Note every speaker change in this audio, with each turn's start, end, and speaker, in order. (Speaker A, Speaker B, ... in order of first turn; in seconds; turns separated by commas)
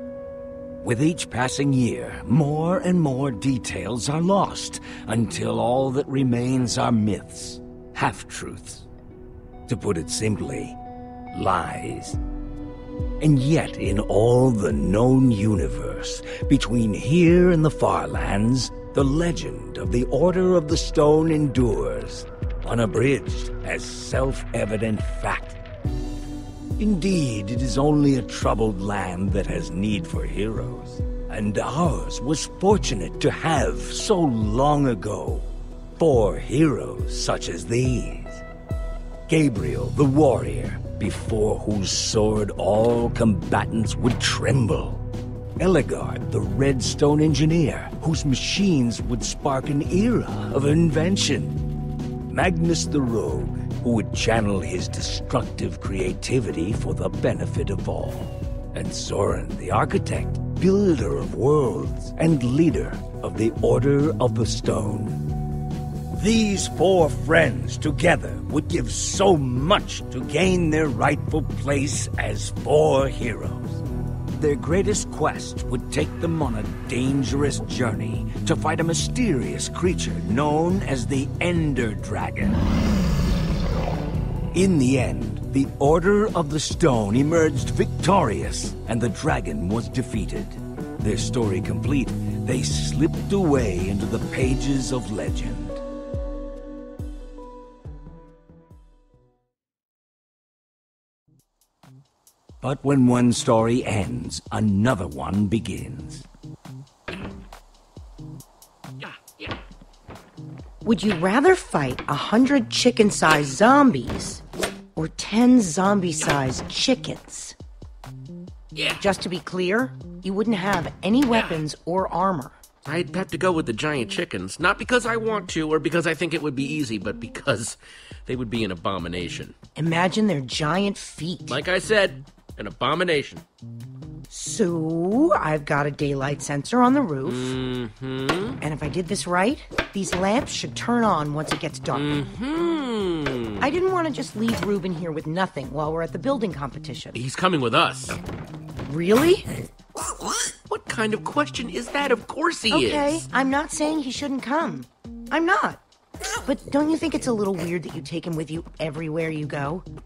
Speaker A: 0.8-8.9, Speaker A: 9.7-10.8, Speaker A: 11.3-12.2, Speaker A: 13.2-25.6, Speaker A: 26.8-38.4, Speaker A: 39.3-45.0, Speaker A: 45.6-51.6, Speaker A: 52.3-65.2, Speaker A: 66.1-82.6, Speaker A: 84.5-95.8, Speaker A: 102.6-106.3, Speaker B: 109.0-109.5, Speaker C: 110.8-114.4, Speaker C: 115.0-117.5, Speaker B: 118.7-119.0, Speaker C: 119.0-122.6, Speaker B: 121.3-121.6, Speaker B: 122.9-129.6, Speaker C: 129.8-131.6, Speaker B: 131.5-133.4, Speaker C: 134.3-137.5, Speaker B: 137.2-138.6, Speaker C: 138.6-142.3, Speaker B: 141.9-143.7, Speaker C: 143.6-147.2, Speaker B: 147.1-148.2, Speaker C: 148.9-149.5, Speaker B: 150.7-153.3, Speaker C: 152.7-155.8, Speaker C: 156.4-159.9